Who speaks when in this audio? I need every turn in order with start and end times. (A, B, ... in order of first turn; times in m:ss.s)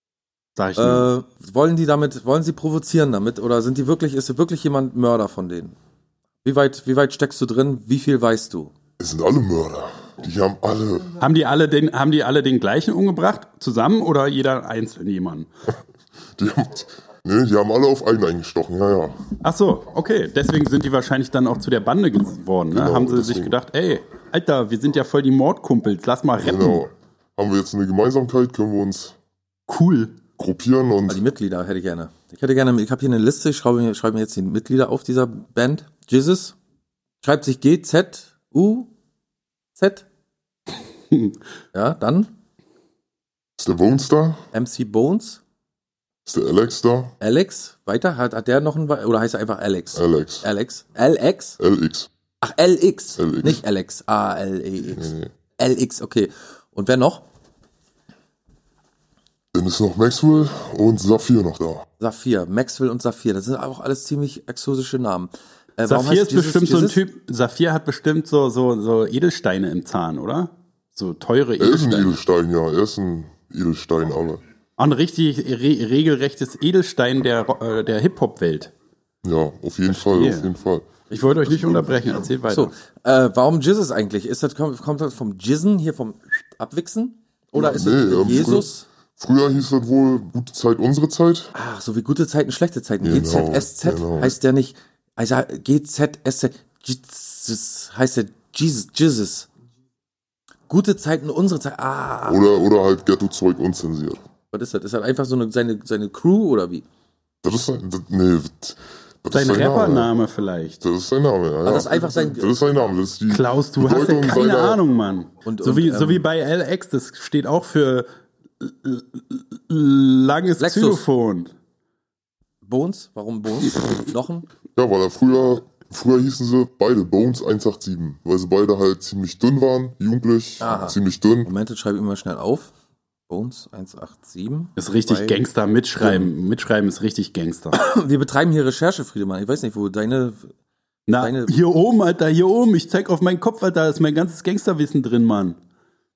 0:00.6-0:01.1 A
0:00.8-0:05.7 B
0:06.4-0:08.7 B
0:09.0-0:11.2 C
0:11.2-0:15.5 A
0:16.4-0:19.3 C
0:19.4-0:26.8 A
0:22.7-0:23.6 C
0:26.4-0:29.2 C
0:29.7-0:30.2 A
0:30.4-0:31.2 C
0:31.1-0:36.6 B
0:37.2-0:38.9 B
0:39.8-0:40.0 B
0:41.7-0:42.3 B
0:43.6-0:44.4 C
0:44.5-0:45.4 B
0:46.3-0:47.1 C
0:47.2-0:51.6 B
0:50.0-0:50.4 C
0:51.6-0:52.1 C
0:52.4-0:57.2 B
0:53.2-0:53.6 C
0:54.8-0:55.3 C
0:59.5-1:01.8 C
1:02.0-1:07.0 B
1:05.8-1:12.1 A
1:11.6-1:14.4 C
1:14.8-1:18.7 A
1:19.2-1:22.2 C
1:19.9-1:20.5 A
1:21.1-1:22.7 A
1:22.5-1:28.8 B
1:27.5-1:31.5 C
1:31.5-1:39.5 B
1:33.0-1:34.4 C
1:40.7-1:42.4 B
1:42.2-1:44.2 C
1:44.5-1:46.8 B
1:47.4-1:50.1 C
1:49.3-1:50.8 A
1:50.8-1:54.8 C
1:51.6-1:52.5 B
1:53.3-1:58.1 A
1:55.4-1:56.2 B
1:58.6-2:01.5 A
2:00.6-2:01.0 B
2:02.6-2:04.5 B
2:04.8-2:11.5 C
2:10.6-2:12.7 B
2:13.3-2:15.4 B
2:14.8-2:17.8 A
2:17.7-2:20.5 B
2:21.1-2:25.6 A
2:21.2-2:21.5 B